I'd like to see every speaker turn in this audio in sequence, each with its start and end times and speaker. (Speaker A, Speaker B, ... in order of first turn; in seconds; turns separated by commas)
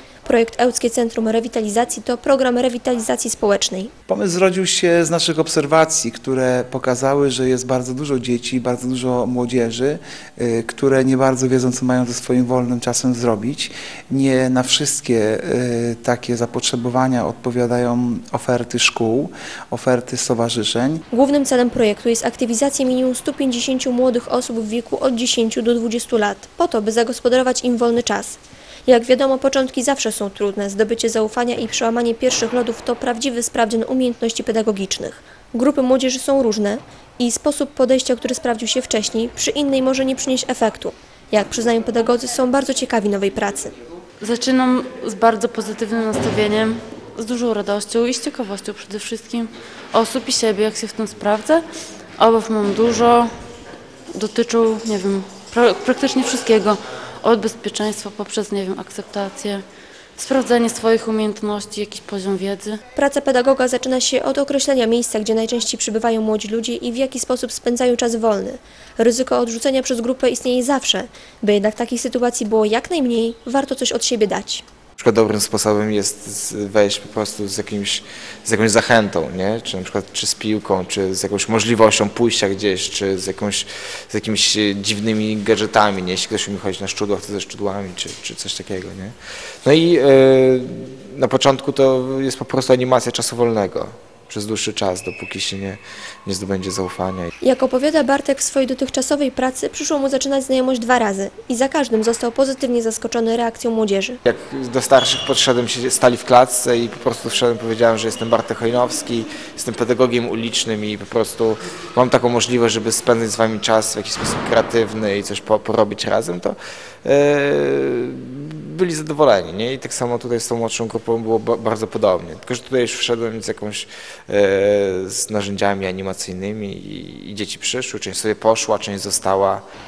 Speaker A: 0.2-3.9, Speaker B: 4.1-21.0, Speaker A: 21.1-43.7, Speaker C: 44.2-53.4, Speaker C: 54.1-59.6, Speaker C: 60.2-62.8, Speaker A: 62.9-74.6, Speaker D: 75.0-97.3, Speaker A: 97.4-104.2, Speaker D: 104.2-129.6